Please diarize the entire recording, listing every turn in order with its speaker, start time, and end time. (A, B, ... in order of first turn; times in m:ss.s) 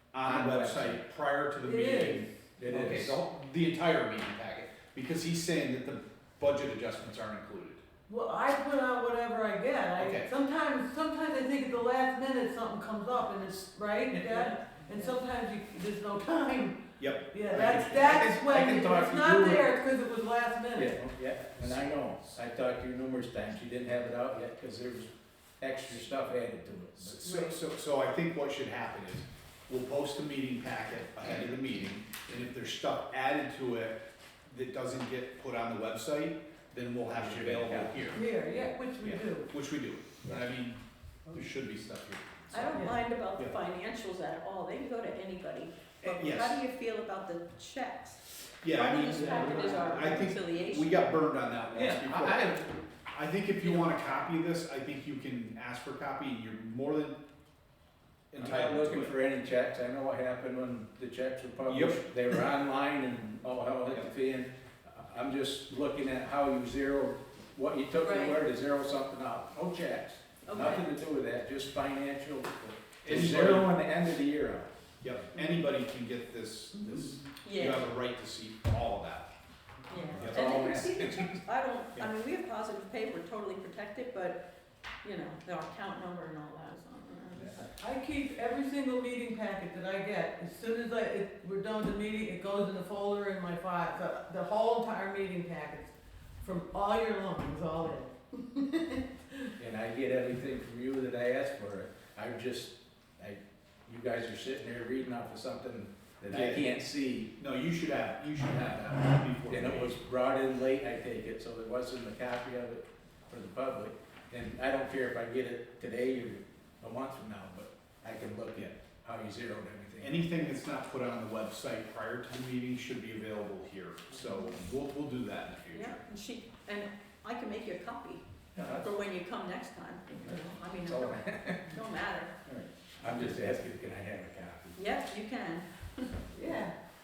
0:00.1-0:07.8 A
0:00.2-0:01.0 B
0:01.6-0:02.3 C
0:02.6-0:03.2 B
0:08.1-0:16.8 C
0:10.0-0:10.3 A
0:14.1-0:14.4 B
0:17.0-0:18.4 A
0:17.3-0:21.0 C
0:17.5-0:19.7 B
0:20.7-0:27.2 B
0:27.0-0:38.2 A
0:27.2-0:27.6 C
0:37.1-0:38.1 B
0:38.1-0:39.5 C
0:39.0-0:40.8 A
0:41.3-0:42.8 A
0:42.5-0:51.2 D
0:46.0-0:46.6 A
0:48.6-0:57.2 A
0:49.1-0:50.3 B
0:51.7-0:52.6 B
0:53.6-0:53.9 D
0:58.3-0:59.1 A
0:58.4-1:14.7 B
1:01.6-1:02.0 A
1:08.0-1:08.4 D
1:10.4-1:10.8 D
1:13.0-1:13.7 A
1:15.0-1:19.3 A
1:17.4-1:17.9 D
1:19.9-1:24.4 D
1:20.1-1:21.4 B
1:20.1-1:20.5 A
1:25.0-1:27.7 D
1:27.3-1:27.7 B
1:27.7-1:39.5 C
1:39.6-1:47.3 B
1:46.3-1:46.7 A
1:47.4-1:50.0 A
1:49.5-2:00.2 B
2:00.0-2:06.0 A
2:05.7-2:12.3 D
2:08.5-2:08.9 B
2:10.2-2:11.8 B
2:12.4-2:14.8 B
2:14.7-2:16.2 D
2:16.3-2:16.7 C